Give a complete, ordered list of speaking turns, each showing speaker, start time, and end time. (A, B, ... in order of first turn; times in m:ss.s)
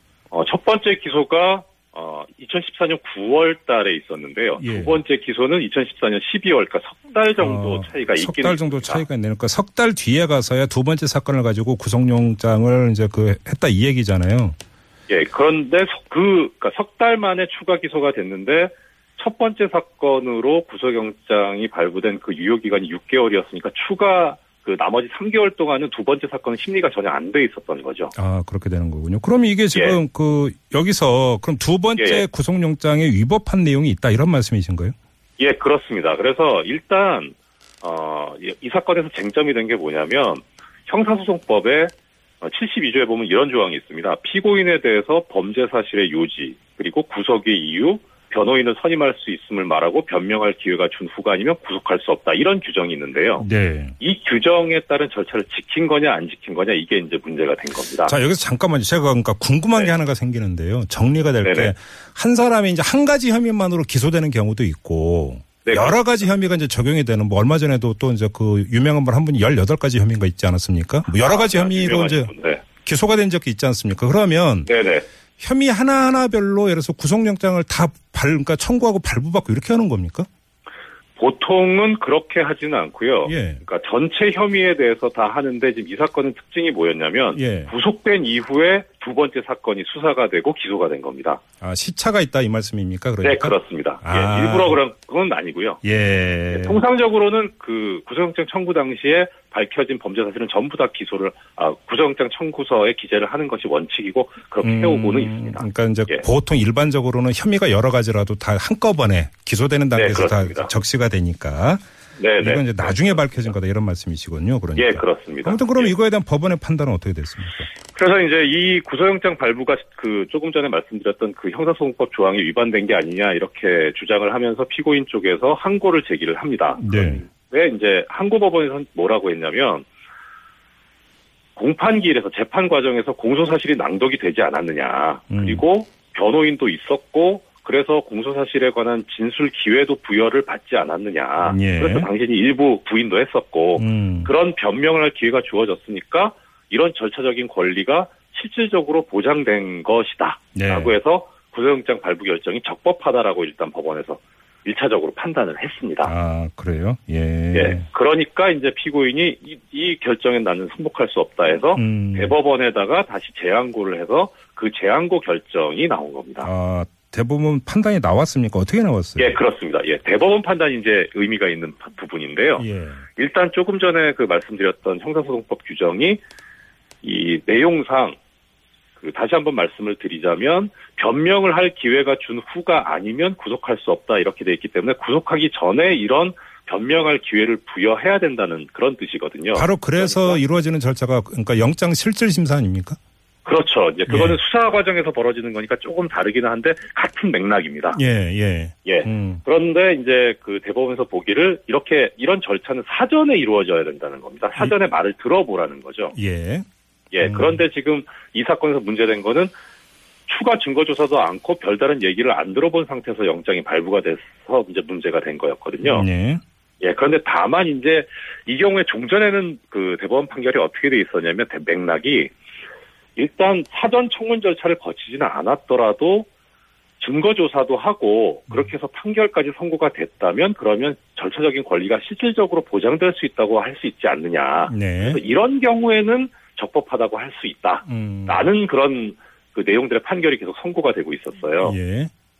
0:00.3-0:09.0 A
0:04.6-0:05.0 B
0:07.4-0:14.6 B
0:15.1-0:28.1 A
0:28.1-0:34.9 B
0:29.7-0:30.0 A
0:32.0-0:32.2 A
0:35.4-0:53.5 A
0:53.4-0:53.9 B
0:54.0-0:58.2 A
0:58.0-1:14.7 B
1:01.4-1:01.7 A
1:05.6-1:06.3 A
1:11.1-1:12.6 A
1:14.6-1:15.0 A
1:15.4-1:20.3 B
1:21.2-1:31.4 A
1:23.2-1:23.6 B
1:27.3-1:27.7 B
1:31.6-1:34.8 B
1:33.2-1:35.8 A
1:35.8-1:36.8 B
1:36.5-1:46.2 A
1:44.6-1:51.8 B
1:49.9-1:50.7 A
1:52.2-1:53.5 A
1:52.4-1:57.7 B
1:54.8-1:55.9 A
1:57.9-2:09.9 A
2:06.8-2:07.2 B
2:11.5-2:36.1 A
2:15.3-2:15.6 B
2:21.4-2:22.1 B
2:23.8-2:24.3 B
2:30.5-2:30.9 B
2:36.0-2:37.8 B
2:37.5-2:46.5 A
2:41.7-2:42.3 B
2:46.4-2:49.4 B
2:49.2-2:56.2 A
2:52.6-2:53.0 B
2:57.0-2:58.2 A
2:59.0-3:10.4 A
3:09.5-3:13.0 B
3:13.4-3:18.0 A
3:14.1-3:14.4 B
3:17.9-3:19.4 B
3:18.8-3:26.2 A
3:26.2-3:26.6 B
3:27.1-3:29.5 A
3:27.2-3:27.6 B
3:30.3-3:36.0 A
3:35.8-3:36.4 B
3:36.8-3:42.3 A
3:43.2-3:46.3 A
3:47.0-4:01.8 A
3:54.7-3:55.2 B
3:57.8-3:58.5 B
4:01.6-4:02.1 B